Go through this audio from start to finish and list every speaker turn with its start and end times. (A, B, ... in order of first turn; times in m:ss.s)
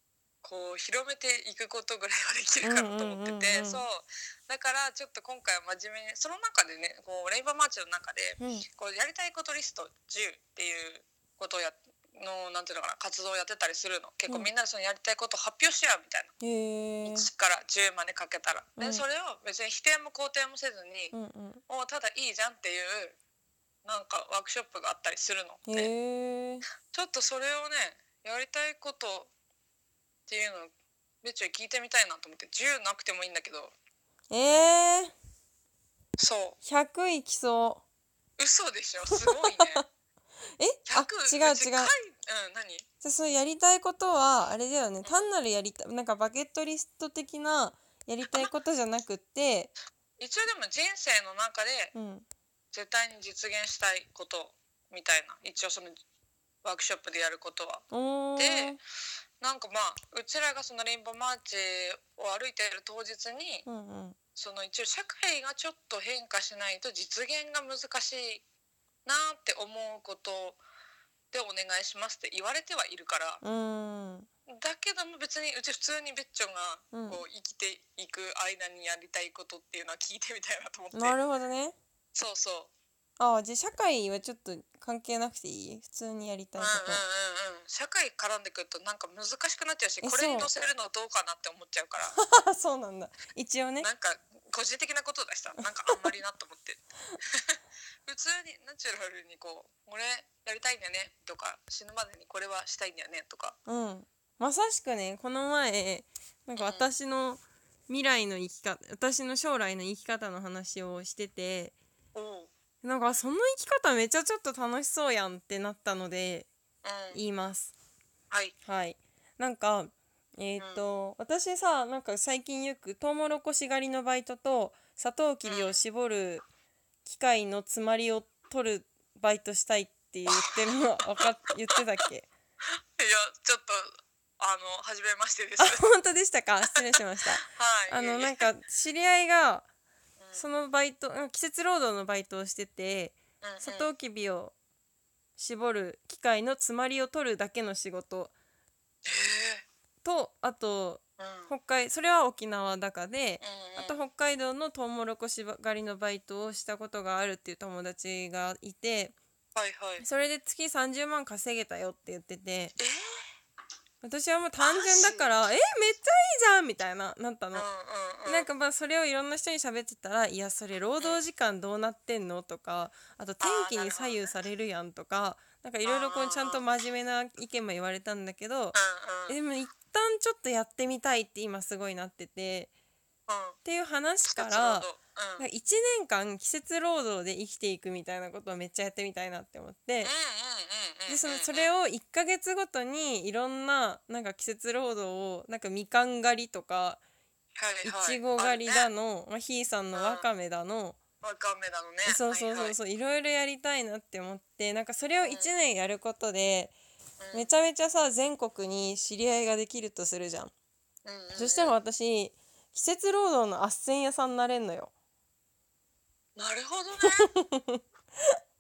0:00.4-0:16.3 A
0:02.6-0:03.8 B
0:08.4-0:08.7 B
0:16.4-0:17.3 B
0:17.0-0:21.1 A
0:18.8-0:19.0 B
0:21.1-0:21.6 B
0:21.7-0:23.2 A
0:23.8-0:25.9 A
0:25.7-0:26.6 B
0:26.9-0:29.3 A
0:30.3-0:33.7 A
0:34.3-0:35.1 B
0:36.2-0:36.6 A
0:36.6-0:37.8 B
0:38.4-0:39.8 A
0:39.3-0:39.8 B
0:40.6-0:41.9 B
0:40.9-0:42.8 A
0:43.0-0:49.7 B
0:45.0-0:45.3 A
0:50.2-0:51.9 A
0:51.9-0:52.2 B
0:52.7-0:56.0 A
0:56.6-0:58.8 A
0:57.9-0:58.8 B
0:59.4-1:03.7 A
1:03.7-1:04.2 B
1:04.4-1:08.4 A
1:09.0-1:10.6 A
1:11.3-1:13.4 A
1:13.4-1:14.3 B
1:14.5-1:21.2 A
1:16.9-1:17.2 B
1:20.9-1:21.8 B
1:22.1-1:22.7 A
1:23.2-1:27.0 B
1:26.6-1:32.2 A
1:30.0-1:30.5 B
1:32.2-1:33.9 B
1:33.8-1:36.8 A
1:37.4-1:43.6 A
1:43.7-1:51.7 B
1:46.6-1:46.9 A
1:52.1-1:52.5 A
1:52.8-1:56.5 B
1:56.8-1:57.2 A
1:57.1-1:57.7 B
1:58.6-2:06.4 B
2:00.6-2:00.9 A
2:05.5-2:05.8 A
2:07.0-2:12.3 B
2:10.3-2:10.6 A
2:13.0-2:15.8 A
2:15.6-2:19.7 B
2:17.4-2:18.5 A
2:20.2-2:20.5 A
2:20.3-2:24.5 B
2:23.4-2:23.9 A
2:25.4-2:28.3 B
2:29.1-2:29.6 A
2:30.0-2:39.2 B
2:31.2-2:31.5 A
2:33.4-2:34.0 A
2:39.6-2:40.1 A
2:40.0-2:42.8 B
2:44.0-2:47.6 B
2:44.6-2:45.3 A
2:47.5-2:48.5 A
2:48.2-2:58.8 B
2:53.4-2:54.3 A
2:55.8-2:56.6 A
2:58.7-2:59.4 A
2:59.3-3:02.7 B
3:03.3-3:03.6 A
3:03.6-3:10.1 B
3:04.3-3:05.5 A
3:10.0-3:11.8 A
3:11.1-3:17.0 B
3:17.6-3:18.9 A
3:17.8-3:21.0 B
3:19.9-3:20.3 A
3:21.2-3:22.8 A
3:22.0-3:26.7 B
3:25.2-3:25.5 A
3:27.2-3:27.5 A
3:27.3-3:30.5 B
3:31.0-3:31.8 A
3:31.3-3:34.9 B
3:36.4-3:37.3 A
3:37.1-3:38.4 B